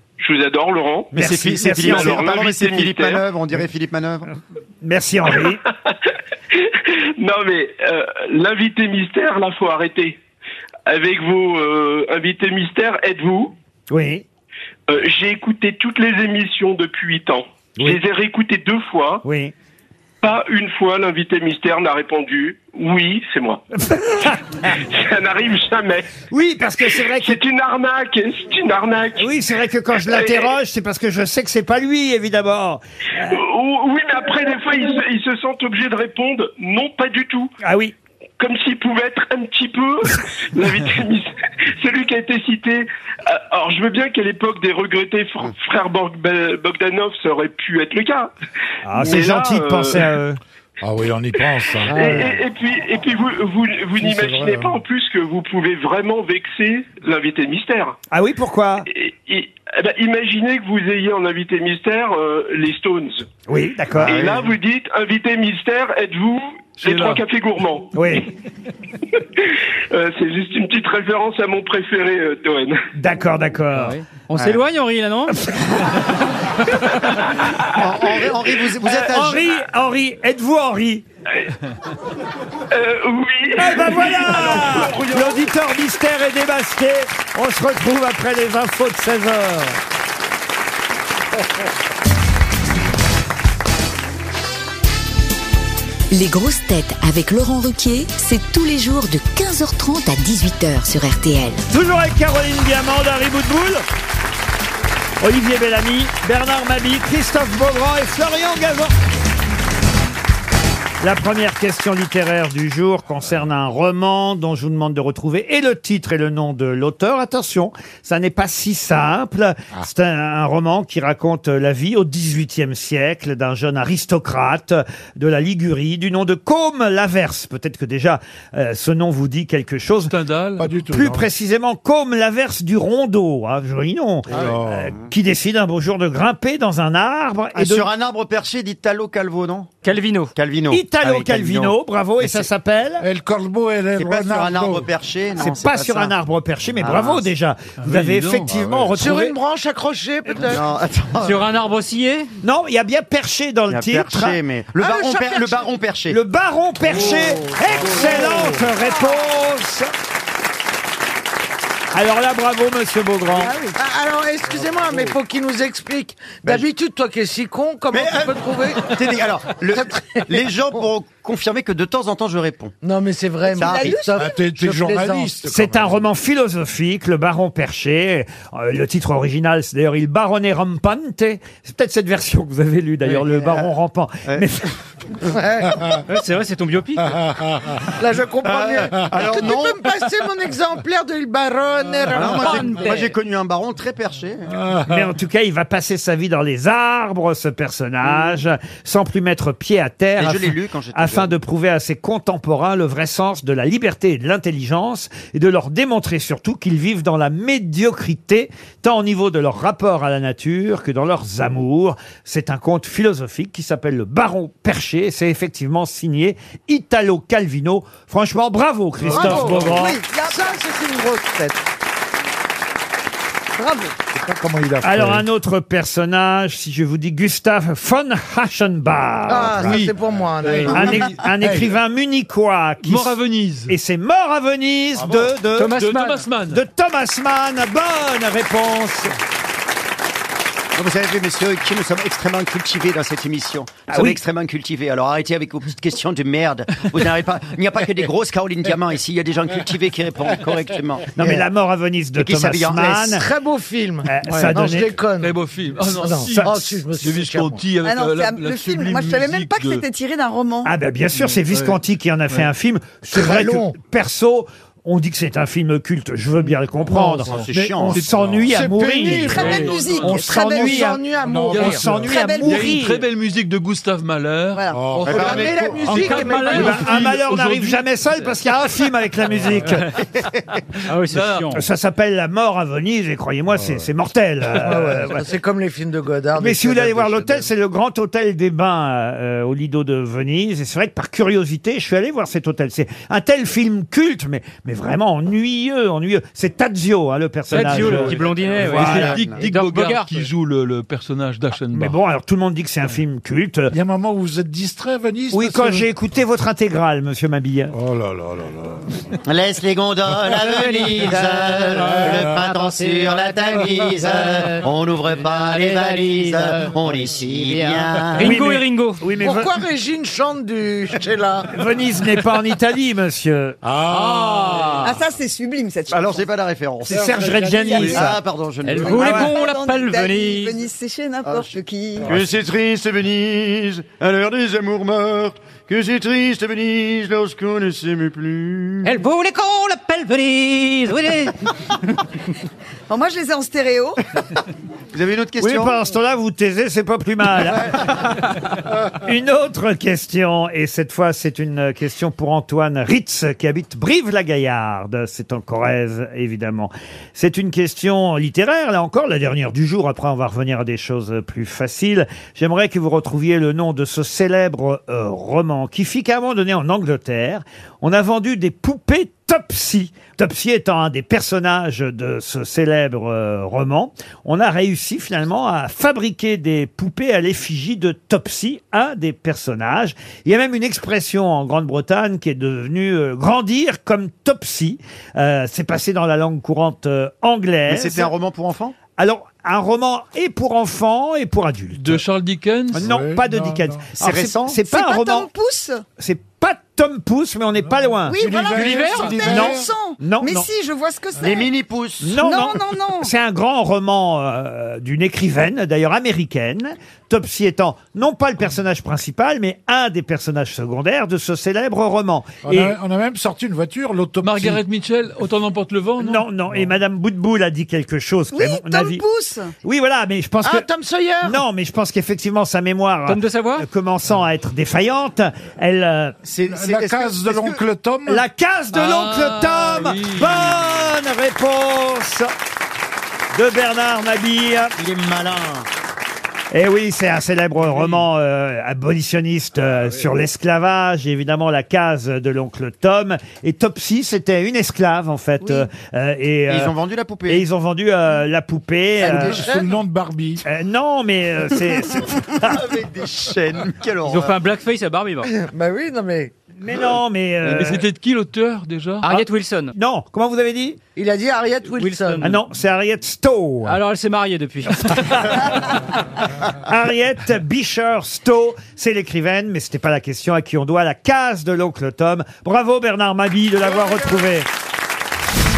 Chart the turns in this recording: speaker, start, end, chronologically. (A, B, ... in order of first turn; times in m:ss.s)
0:00.2-0:03.2 A
0:01.1-0:04.3 B
0:01.2-0:02.3 C
0:04.8-0:05.6 C
0:05.5-0:10.2 A
0:10.9-0:13.5 A
0:13.9-0:14.2 C
0:14.9-0:19.2 A
0:19.2-0:19.5 C
0:20.2-0:23.6 A
0:23.8-0:24.7 C
0:24.7-0:26.1 A
0:26.3-0:27.4 C
0:26.8-0:29.3 A
0:29.2-0:33.4 C
0:30.0-0:30.5 A
0:33.3-0:37.5 A
0:37.6-0:37.9 C
0:38.4-0:48.3 A
0:48.8-0:50.4 C
0:48.9-0:50.1 A
0:50.8-0:52.4 D
0:51.9-0:58.0 A
0:52.0-0:52.2 E
0:54.0-0:54.8 D
0:58.1-0:58.9 C
0:58.9-1:03.3 A
1:03.5-1:04.3 C
1:04.0-1:04.6 B
1:04.0-1:08.2 A
1:06.8-1:07.2 F
1:07.9-1:08.3 C
1:09.4-1:12.8 A
1:12.9-1:14.0 C
1:13.8-1:15.4 G
1:15.5-1:15.9 C
1:17.4-1:18.4 A
1:17.8-1:19.4 B
1:18.8-1:21.0 C
1:22.7-1:25.5 A
1:23.6-1:29.8 C
1:36.1-1:41.6 H
1:41.7-1:43.8 C
1:45.2-1:48.9 C
1:51.0-2:10.2 C
2:10.1-2:10.7 F
2:10.6-2:11.3 D
2:10.9-2:17.9 C
2:14.3-2:14.9 D
2:17.5-2:19.7 B
2:19.8-2:20.3 G
2:20.4-2:21.8 B
2:20.7-2:23.1 C
2:23.0-2:24.9 D
2:24.0-2:26.1 B
2:25.4-2:29.4 C
2:26.8-2:27.3 B
2:27.8-2:28.5 F
2:28.5-2:28.9 D
2:29.0-2:30.7 E
2:30.4-2:31.4 B
2:31.2-2:32.3 G
2:32.4-2:34.4 C
2:33.7-2:36.2 B
2:34.8-2:35.7 E
2:36.1-2:39.9 C
2:36.9-2:38.9 E
2:37.6-2:38.6 D
2:41.9-2:43.6 C
2:43.4-2:49.0 E
2:44.6-2:45.1 D
2:47.9-2:52.7 B
2:49.7-2:50.9 E
2:52.8-2:55.4 E
2:53.5-2:54.4 I
2:53.5-2:54.1 B
2:54.2-2:56.1 D
2:55.5-3:04.7 C
3:03.4-3:03.7 B
3:05.3-3:06.0 E
3:06.1-3:07.2 G
3:07.1-3:07.8 D
3:08.0-3:12.9 E
3:08.4-3:10.1 B
3:12.1-3:14.5 B
3:12.3-3:13.1 G
3:14.5-3:15.1 D
3:14.9-3:40.0 C
3:20.2-3:21.4 B
3:39.0-3:39.7 D
3:39.1-3:41.6 E
3:39.2-3:40.5 I
3:43.6-3:43.9 I
3:44.1-3:45.3 D
3:44.8-3:49.9 C
3:49.3-3:51.1 E
3:49.6-3:51.8 D
3:49.6-3:49.9 F
3:50.7-3:55.9 C
3:52.8-3:53.7 F
3:55.6-3:56.2 G
3:55.7-3:56.6 F
3:56.5-3:59.1 C
4:00.8-4:11.4 B
4:03.9-4:04.2 C
4:11.2-4:13.3 C
4:12.2-4:13.2 B
4:13.1-4:15.4 E
4:14.0-4:15.0 C
4:14.3-4:14.6 G
4:15.2-4:19.8 F
4:15.9-4:17.6 E
4:16.3-4:16.6 C
4:17.8-4:20.7 I
4:20.6-4:31.0 C
4:23.1-4:23.8 E
4:27.2-4:28.0 B
4:27.9-4:30.9 F
4:28.1-4:28.8 D
4:28.9-4:29.7 E
4:29.0-4:31.0 I
4:29.3-4:29.7 D
4:30.4-4:31.9 E
4:31.2-4:32.1 D
4:31.4-4:37.8 F
4:31.5-4:33.0 C
4:32.0-4:32.8 I
4:34.5-4:36.5 I
4:34.7-4:35.6 D
4:35.0-4:36.9 B
4:35.2-4:37.1 E
4:35.9-4:37.0 G
4:36.4-4:39.9 C
4:40.8-4:41.6 G
4:41.1-4:41.6 F
4:41.5-4:45.2 C
4:43.5-4:43.9 D
4:44.6-4:47.5 E
4:46.4-4:59.2 C
4:57.5-5:00.1 G
4:57.6-4:58.0 F
4:58.2-4:59.5 B
4:58.6-5:02.0 F
5:01.7-5:03.7 C
5:03.7-5:05.9 D
5:05.3-5:07.8 C
5:07.7-5:08.9 D
5:09.3-5:18.4 B
5:10.5-5:14.7 G
5:11.7-5:12.4 D
5:15.2-5:19.0 G
5:18.2-5:19.5 C
5:19.2-5:21.5 E
5:21.5-5:23.6 C
5:23.6-5:24.8 D
5:23.9-5:25.0 G
5:24.8-5:26.2 I
5:25.9-5:29.4 B
5:26.9-5:28.2 C
5:26.9-5:28.1 D
5:28.6-5:30.6 G
5:28.8-5:32.2 I
5:31.2-5:31.5 B
5:32.0-5:39.0 B
5:38.8-5:41.4 G
5:42.9-5:44.0 I
5:44.9-5:45.8 B
5:45.4-5:48.2 C
5:49.0-6:28.1 C
6:27.7-6:28.8 B
6:29.0-6:32.0 C
6:31.8-6:32.9 F
6:32.7-6:35.3 C
6:32.7-6:33.9 D
6:34.0-6:34.6 B
6:34.6-6:35.8 I
6:36.0-6:38.4 C
6:37.7-6:39.7 D
6:38.1-6:41.5 I
6:39.2-6:40.5 C
6:41.2-6:42.0 B
6:42.0-6:52.8 C
6:42.1-6:43.1 I
6:52.4-6:54.6 D
6:54.2-6:56.3 F
6:56.0-6:59.0 C
6:58.3-6:59.5 I
6:59.6-7:00.7 C
7:00.4-7:01.4 E
7:01.2-7:06.2 C
7:03.1-7:03.7 G
7:06.2-7:07.6 B
7:06.5-7:08.2 D
7:08.1-7:12.3 C
7:08.7-7:10.8 F
7:13.3-7:14.7 C
7:14.8-7:15.7 B
7:16.5-7:26.7 C
7:26.5-7:27.4 B
7:27.3-7:29.5 C
7:29.0-7:29.8 E
7:29.0-7:30.4 D
7:30.4-7:32.6 C
7:32.4-7:34.4 B
7:34.0-7:35.3 G
7:35.3-7:36.3 E
7:36.6-7:37.9 C
7:37.4-7:39.2 F
7:39.0-7:39.7 G
7:39.8-7:40.8 C
7:41.0-7:42.3 E
7:41.7-7:42.4 G
7:42.2-7:43.8 C
7:43.7-7:45.4 G
7:44.9-7:45.5 C
7:46.6-7:54.5 C